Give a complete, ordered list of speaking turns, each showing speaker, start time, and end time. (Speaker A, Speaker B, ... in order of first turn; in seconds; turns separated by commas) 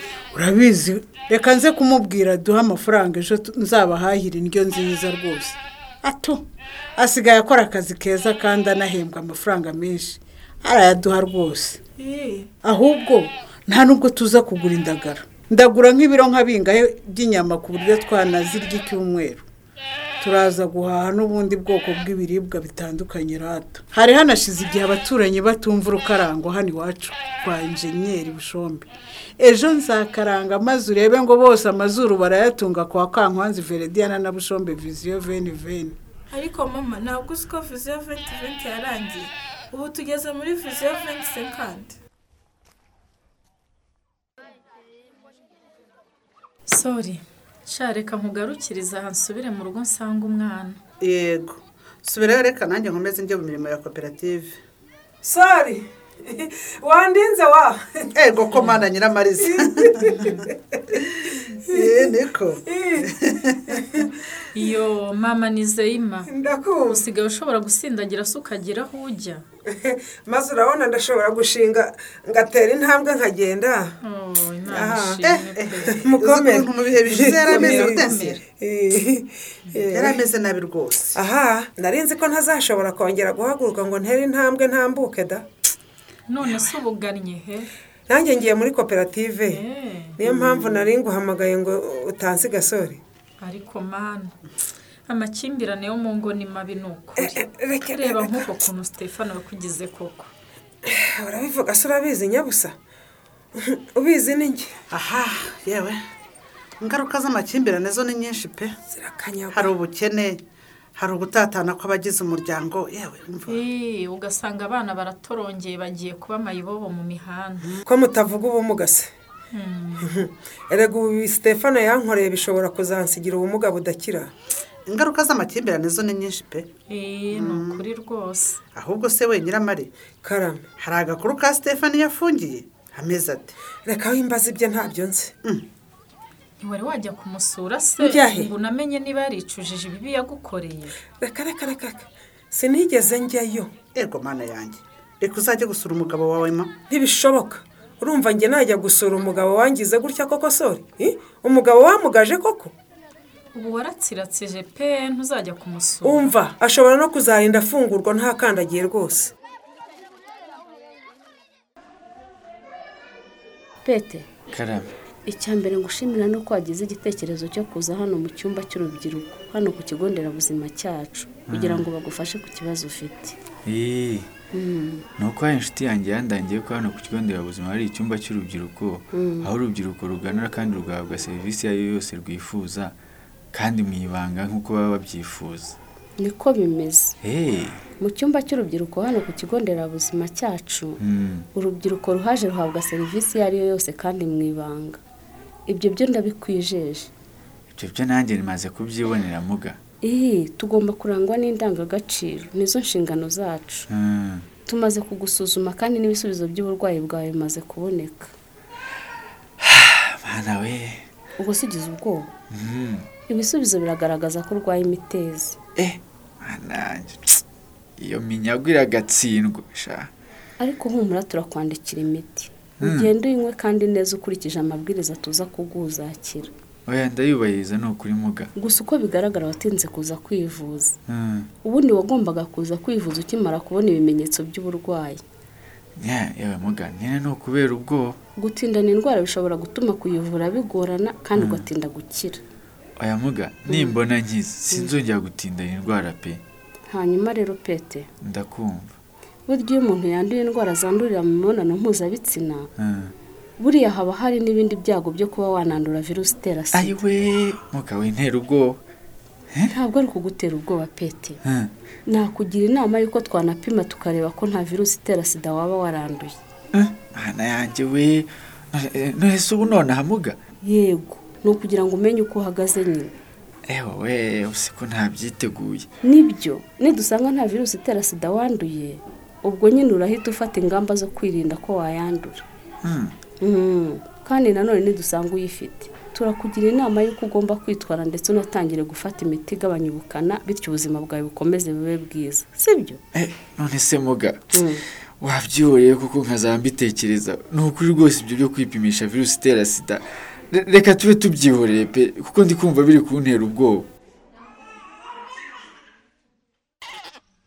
Speaker A: 0.3-6.4, Speaker A: 7.0-11.8, Speaker B: 12.0-12.5, Speaker A: 12.6-19.4, Speaker A: 20.2-28.9, Speaker A: 29.4-36.0, Speaker B: 36.3-41.9, Speaker C: 46.7-50.8, Speaker D: 51.0-54.5, Speaker E: 55.2-58.1, Speaker D: 58.1-59.9, Speaker C: 58.5-58.8, Speaker E: 59.4-62.1, Speaker C: 60.1-60.4, Speaker D: 61.7-62.6, Speaker E: 62.6-63.1, Speaker D: 63.2-63.5, Speaker E: 63.7-64.1, Speaker C: 64.5-66.3, Speaker E: 66.2-67.1, Speaker C: 66.9-69.4, Speaker E: 69.7-73.9, Speaker C: 74.0-76.0, Speaker E: 74.7-75.2, Speaker D: 75.2-78.4, Speaker E: 75.8-80.2, Speaker C: 77.2-78.4, Speaker D: 79.8-81.2, Speaker E: 81.1-85.4, Speaker C: 86.3-87.7, Speaker E: 88.1-89.6, Speaker C: 89.5-90.2, Speaker E: 90.2-93.0, Speaker C: 93.4-94.3, Speaker C: 95.1-100.3, Speaker E: 97.2-98.5, Speaker E: 100.8-102.7, Speaker E: 103.5-104.7, Speaker D: 104.9-106.0, Speaker D: 106.8-108.7, Speaker E: 108.9-109.8, Speaker D: 109.5-110.4, Speaker D: 111.0-113.6, Speaker C: 113.5-117.7, Speaker E: 117.8-119.1, Speaker C: 119.5-120.1, Speaker E: 120.0-124.3, Speaker D: 124.9-126.7, Speaker C: 126.9-128.6, Speaker D: 127.3-127.8, Speaker D: 128.7-129.9, Speaker E: 130.2-130.7, Speaker D: 130.8-133.5, Speaker E: 133.8-135.3, Speaker C: 136.6-140.9, Speaker E: 138.0-138.5, Speaker E: 141.2-143.7, Speaker D: 143.9-146.7, Speaker E: 146.9-152.7, Speaker C: 153.5-156.3, Speaker E: 156.0-159.3, Speaker F: 163.8-164.3, Speaker G: 164.5-164.9, Speaker F: 165.3-173.3, Speaker G: 171.5-171.9, Speaker G: 173.7-174.3, Speaker F: 174.5-175.0, Speaker G: 175.2-182.9, Speaker F: 179.1-179.5, Speaker G: 183.5-185.8, Speaker F: 186.2-187.2, Speaker G: 187.2-187.8, Speaker F: 188.0-191.0, Speaker G: 191.0-191.5, Speaker F: 191.5-195.0, Speaker F: 195.7-197.1, Speaker G: 197.7-199.8, Speaker F: 200.0-203.8, Speaker G: 203.9-204.4, Speaker F: 204.7-208.3, Speaker G: 209.6-210.9, Speaker F: 211.4-212.3, Speaker G: 212.5-213.1, Speaker F: 213.3-215.6, Speaker G: 215.8-217.4, Speaker G: 218.0-220.1, Speaker F: 220.6-226.5, Speaker G: 222.8-223.1, Speaker G: 226.9-228.5, Speaker F: 228.6-230.9, Speaker G: 231.1-231.5, Speaker F: 231.6-235.2, Speaker G: 236.0-238.2, Speaker F: 238.4-242.4, Speaker G: 241.3-241.7, Speaker G: 243.0-246.4, Speaker F: 243.7-244.0, Speaker F: 246.9-248.1, Speaker G: 248.2-248.9, Speaker F: 249.5-252.7, Speaker G: 252.8-253.1, Speaker F: 253.6-257.0, Speaker G: 256.7-258.8, Speaker F: 259.7-261.4, Speaker G: 261.4-261.7, Speaker F: 262.1-266.3, Speaker G: 266.7-270.4, Speaker F: 270.6-273.1, Speaker G: 273.7-275.9, Speaker F: 276.0-282.4, Speaker G: 282.8-283.1, Speaker F: 283.4-293.0, Speaker G: 293.1-294.4, Speaker F: 294.5-294.8, Speaker G: 295.2-303.9